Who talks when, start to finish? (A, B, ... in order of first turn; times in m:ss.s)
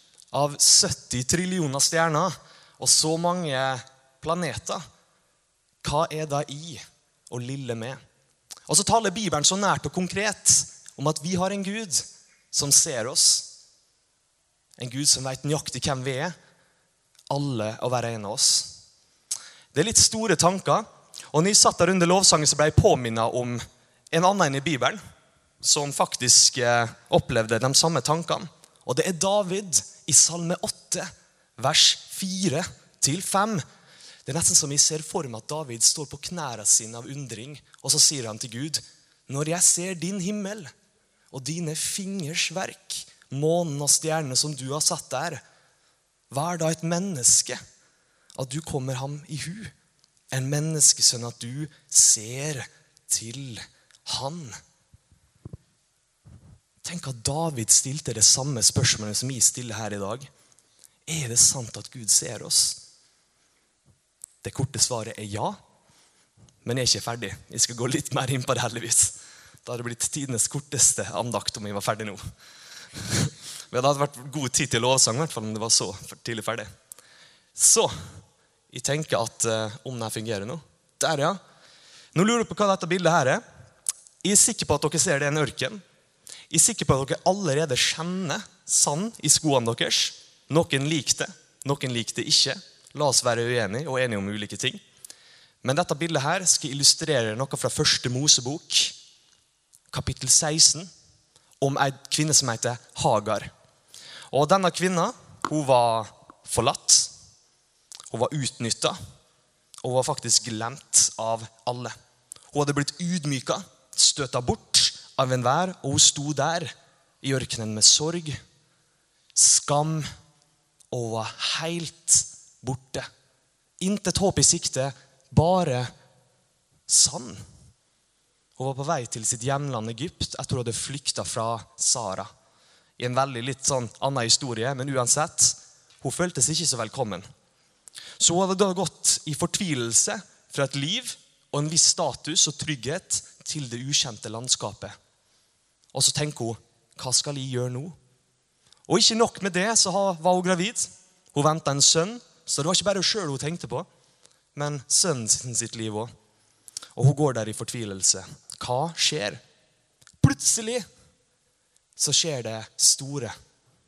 0:00.3-0:04.8 A
0:05.8-0:08.0 A
0:08.7-0:13.5 A
0:14.8-0:16.4 A
0:17.3-0:18.7 A
0:19.7-0:25.0 A
0:25.6-0:33.6 A
0:34.3-0:40.7 A
0:41.3-0:45.4 A
0:46.3-0:47.6 A
0:48.4-0:49.7 A
0:50.3-0:54.6 A
0:56.8-1:00.3 A
1:01.1-1:02.8 A
1:04.4-1:05.6 A
1:06.6-1:12.2 A
1:13.0-1:16.7 A
1:17.6-1:18.2 A
1:18.7-1:21.4 A
1:22.2-1:23.4 A
1:24.2-1:25.8 A
1:26.5-1:34.8 A
1:35.6-1:39.0 A
1:39.9-1:40.9 A
1:41.6-1:43.5 A
1:44.3-1:47.1 A
1:48.1-1:49.0 A
1:49.8-1:52.0 A
1:52.5-1:58.4 A
1:59.4-2:00.1 A
2:00.9-2:03.1 A
2:03.8-2:05.9 A
2:06.9-2:07.4 A
2:08.6-2:12.3 A
2:13.0-2:17.3 A
2:18.2-2:24.9 A
2:25.9-2:28.0 A
2:28.9-2:33.9 A
2:34.6-2:36.1 A
2:37.0-2:39.4 A
2:40.2-2:40.9 A
2:42.0-2:43.3 A